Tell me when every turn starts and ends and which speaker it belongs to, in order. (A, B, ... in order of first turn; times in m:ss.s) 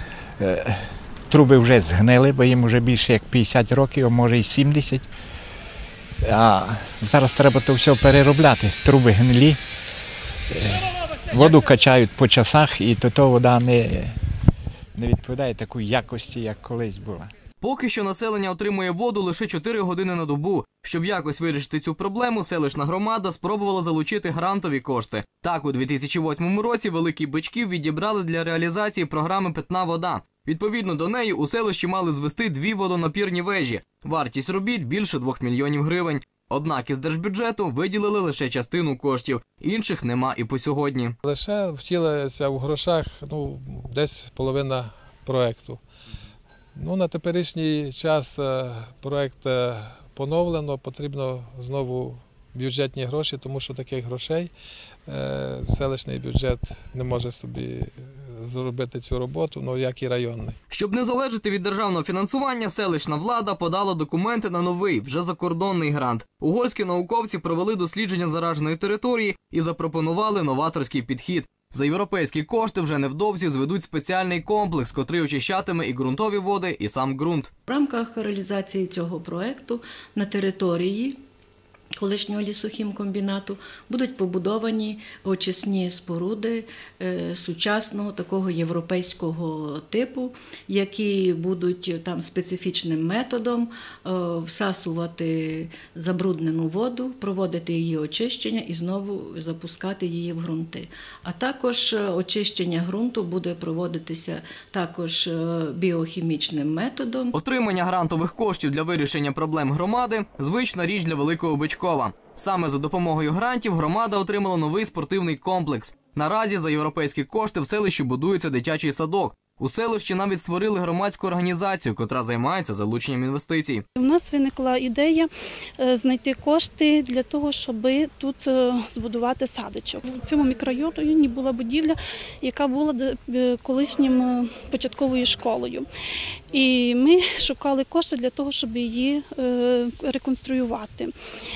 0:00.4-0:05.1 A
0:06.2-0:09.6 A
0:10.5-0:14.2 A
0:15.0-0:17.3 A
0:17.6-0:41.1 B
0:41.2-0:45.8 C
0:46.8-0:54.5 C
0:55.1-1:00.6 C
1:00.7-1:17.5 B
1:17.7-1:21.1 D
1:22.0-1:47.3 D
1:47.3-2:03.8 B
2:04.0-2:15.9 E
2:16.5-2:21.1 E